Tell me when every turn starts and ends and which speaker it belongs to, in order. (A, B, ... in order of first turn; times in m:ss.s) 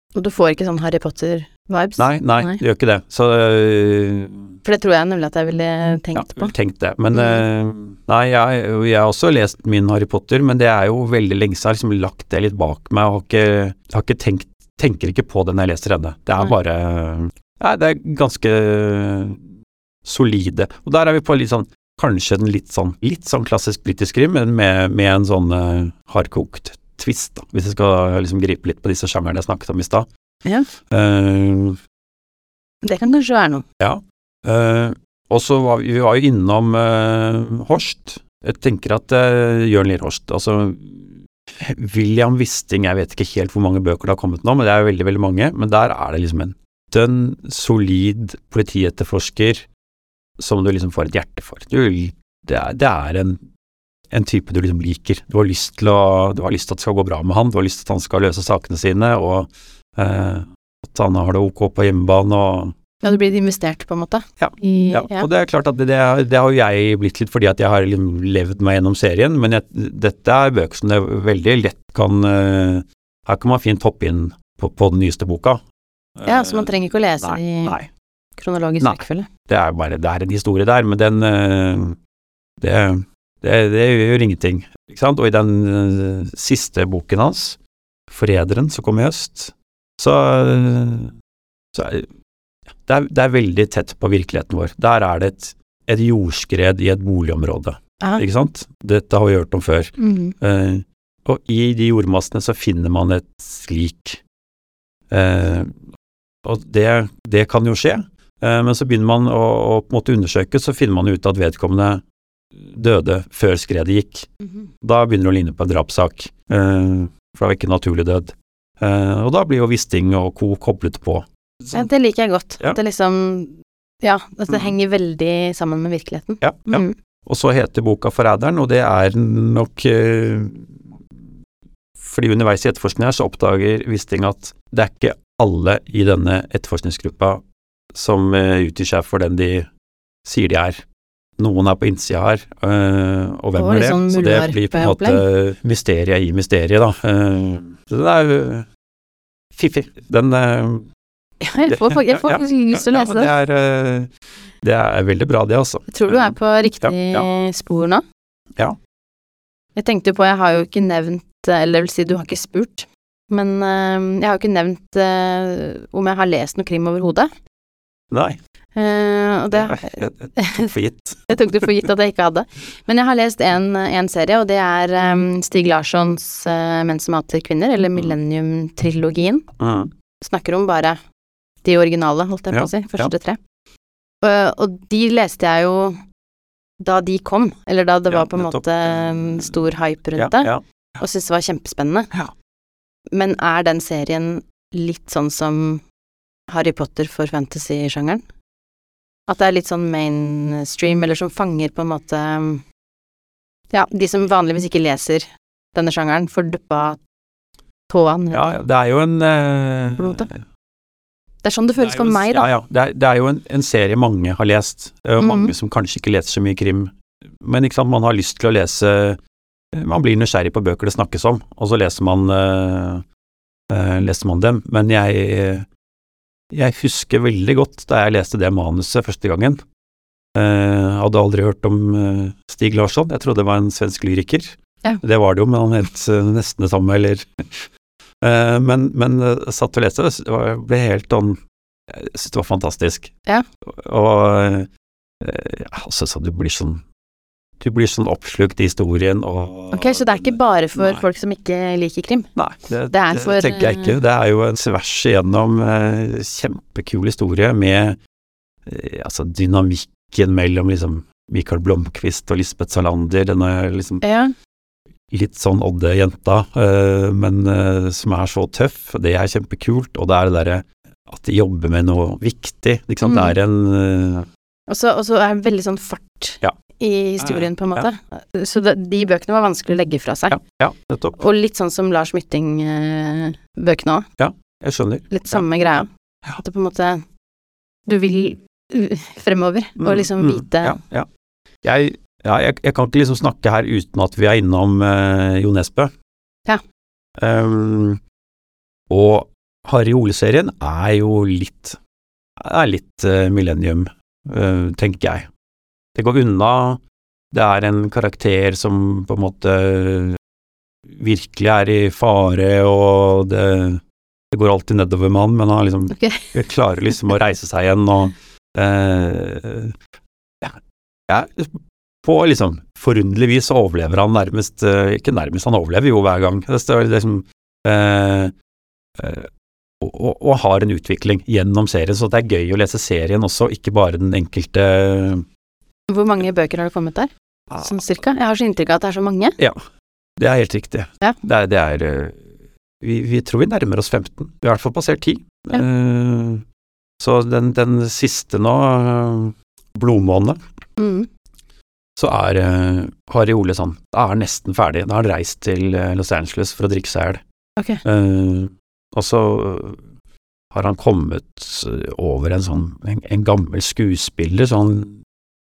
0:00.1-0:02.6 A
0:02.0-0:04.5 B
0:04.6-0:06.5 A
0:06.1-0:19.4 B
0:07.1-0:07.4 A
0:20.0-0:30.1 B
0:30.9-0:31.8 B
0:32.8-0:33.6 A
0:33.8-0:49.6 B
0:50.4-0:53.4 B
0:54.1-1:02.7 B
1:03.0-1:05.3 A
1:04.4-1:15.6 B
1:16.2-1:17.9 B
1:16.2-1:17.8 A
1:18.4-1:19.3 A
1:18.8-1:22.0 B
1:22.6-1:27.6 B
1:28.1-1:31.1 B
1:31.7-1:32.1 B
1:32.8-1:44.2 B
1:40.0-1:40.3 A
1:45.1-1:45.8 B
1:46.4-1:52.0 B
1:52.5-1:54.3 B
1:54.4-1:54.7 A
1:54.8-2:01.9 B
2:01.7-2:06.9 A
2:06.4-2:10.8 B
2:12.0-2:17.4 B
2:17.9-2:19.7 B
2:20.2-2:20.8 B
2:21.4-2:28.7 B
2:23.6-2:25.2 A
2:29.5-2:30.8 B
2:31.4-2:33.3 A
2:31.7-2:34.1 B
2:34.6-2:37.3 B
2:35.9-2:38.0 A
2:39.8-2:47.3 A
2:48.1-2:48.4 B
2:48.8-2:50.7 A
2:49.5-2:51.4 B
2:51.3-2:59.4 A
2:59.6-2:59.9 B
3:00.2-3:01.0 A
3:01.6-3:03.4 A
3:02.5-3:03.1 B
3:04.2-3:06.0 A
3:06.8-3:12.1 A
3:08.1-3:09.4 B
3:10.2-3:10.6 B
3:13.1-3:15.8 A
3:16.5-3:18.2 A
3:19.3-3:22.6 A
3:23.7-3:27.0 A
3:27.9-3:28.6 A
3:28.3-3:30.4 B
3:30.0-3:30.3 A
3:31.4-3:32.5 A
3:31.8-3:39.2 B
3:35.2-3:35.5 A
3:39.7-3:43.0 B
3:43.7-3:45.6 B
3:46.5-3:49.6 B
3:50.3-3:57.7 B
3:58.2-4:03.1 B
4:03.6-4:04.7 B
4:05.2-4:06.8 B
4:07.6-4:11.0 B
4:09.7-4:12.3 A
4:12.4-4:18.0 B
4:12.9-4:14.0 A
4:18.6-4:24.0 B
4:24.0-4:24.3 A
4:25.1-4:34.3 B
4:33.0-4:33.3 A
4:34.7-4:40.4 A
4:37.2-4:37.8 B
4:40.3-4:41.2 B
4:41.2-4:44.1 A
4:44.2-4:45.4 B
4:45.1-4:47.0 A
4:47.9-4:50.8 A
4:49.8-4:51.1 B
4:51.6-4:55.9 B
4:57.2-4:58.0 B
4:58.9-5:01.8 B
5:02.4-5:05.3 B
5:05.9-5:06.8 B
5:07.3-5:10.2 B
5:10.9-5:19.8 B
5:15.9-5:16.3 A
5:20.4-5:28.3 B
5:29.0-5:29.3 B
5:29.8-5:35.2 B
5:35.9-5:39.4 A
5:40.2-5:42.2 B
5:42.8-5:46.4 B
5:47.0-5:50.4 B
5:50.8-5:51.1 A
5:52.0-5:57.2 B
5:57.6-5:57.8 A
5:57.8-5:59.8 B
6:00.5-6:05.0 B